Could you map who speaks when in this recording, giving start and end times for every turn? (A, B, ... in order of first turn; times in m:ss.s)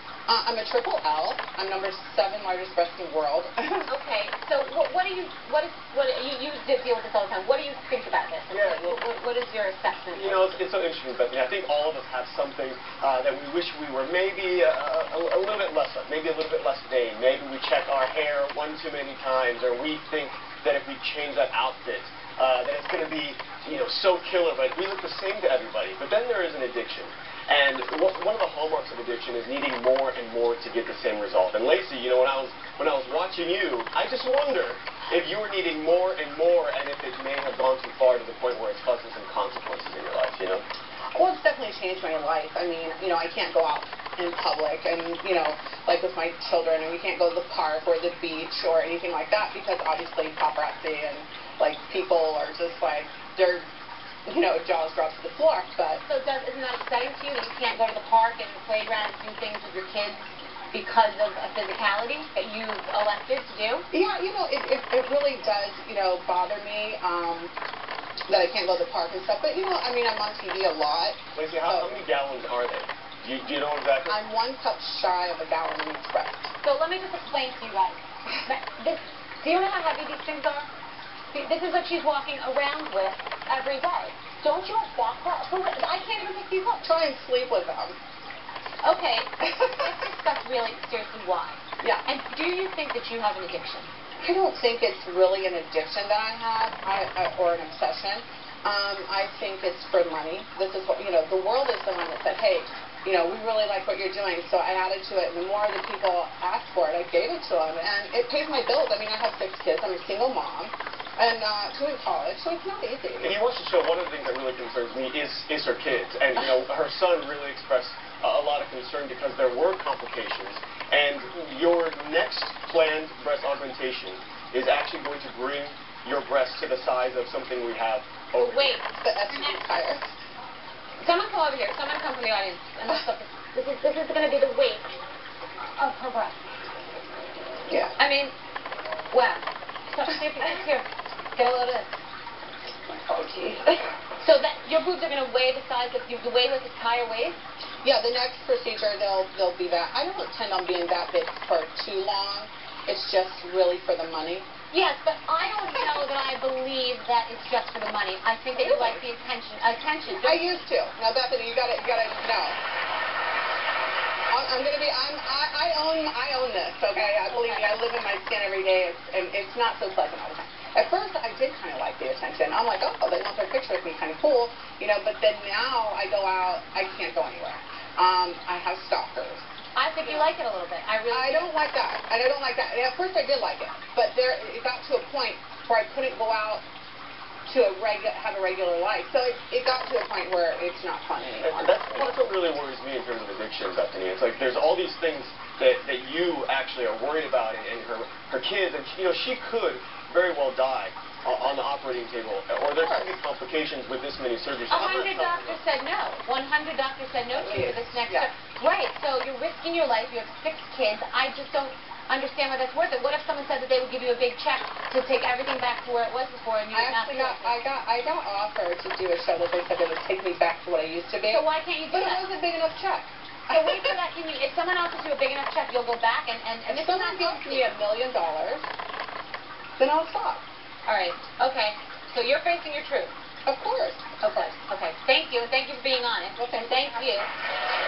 0:00.3-0:03.9 A
0:03.9-0:10.5 B
0:08.5-0:09.0 C
0:10.1-0:40.7 C
0:41.1-0:53.7 A
0:54.3-0:56.0 A
0:56.0-1:03.9 B
1:03.9-1:07.5 A
1:08.3-1:11.9 A
1:11.4-1:14.2 C
1:14.1-1:16.5 A
1:16.6-1:20.7 B
1:21.3-1:26.8 B
1:26.8-1:28.0 A
1:28.8-1:33.9 B
1:29.4-1:29.9 A
1:34.2-1:53.4 A
1:53.2-2:08.8 C
2:08.4-2:09.6 B
2:09.0-2:10.0 A
2:11.0-2:15.0 B
2:15.8-2:16.4 B
2:17.7-2:18.0 A
2:18.0-2:18.3 B
2:19.1-2:22.0 B
2:22.9-2:23.7 A
2:24.2-2:27.4 B
2:27.8-2:34.5 A
2:34.7-2:40.6 B
2:35.4-2:35.9 A
2:38.5-2:39.0 A
2:40.1-2:42.6 A
2:44.3-2:59.5 A
2:47.3-2:47.7 B
2:59.8-3:01.5 B
3:01.1-3:06.6 A
3:07.5-3:11.9 A
3:11.4-3:25.6 C
3:22.8-3:23.2 A
3:24.7-3:37.6 B
3:27.4-3:28.3 A
3:36.7-3:44.0 A
3:41.3-3:42.3 B
3:43.5-3:47.7 B
3:46.7-3:48.6 A
3:49.8-3:50.4 A
3:50.9-3:53.1 B
3:53.5-3:54.4 A
3:54.2-3:57.3 B
3:56.4-3:57.2 A